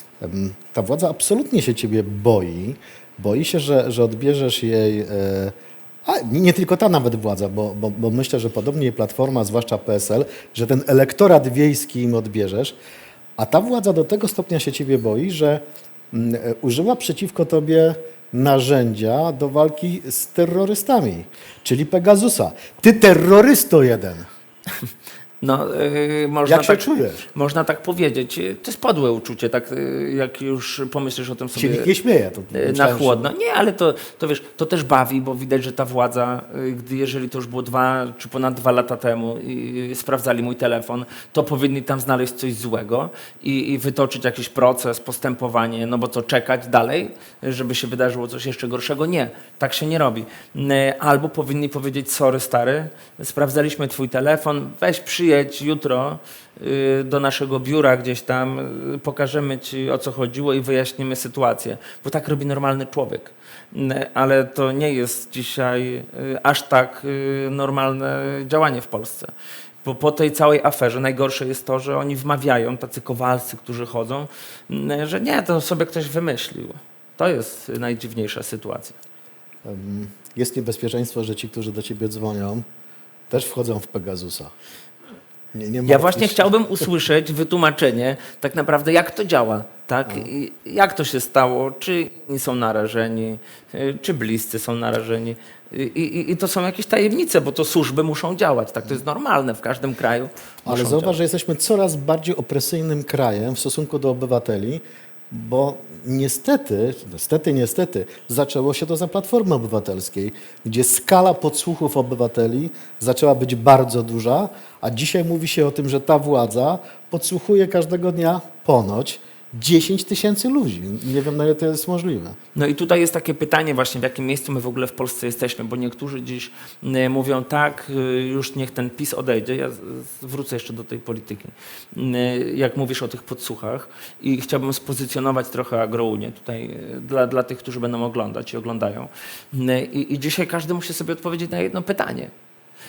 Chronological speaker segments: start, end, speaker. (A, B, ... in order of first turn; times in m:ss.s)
0:00.2-0:05.5 A
0:06.0-0:12.8 A
0:13.4-0:24.3 A
0:25.4-0:31.9 B
0:26.4-0:27.3 A
0:31.6-0:33.2 A
0:32.5-1:09.3 B
1:09.8-1:19.0 B
1:19.6-1:22.6 A
1:23.3-1:24.5 A
1:25.5-1:26.5 A
1:25.8-1:41.2 B
1:40.6-2:02.4 A
2:02.5-2:22.3 B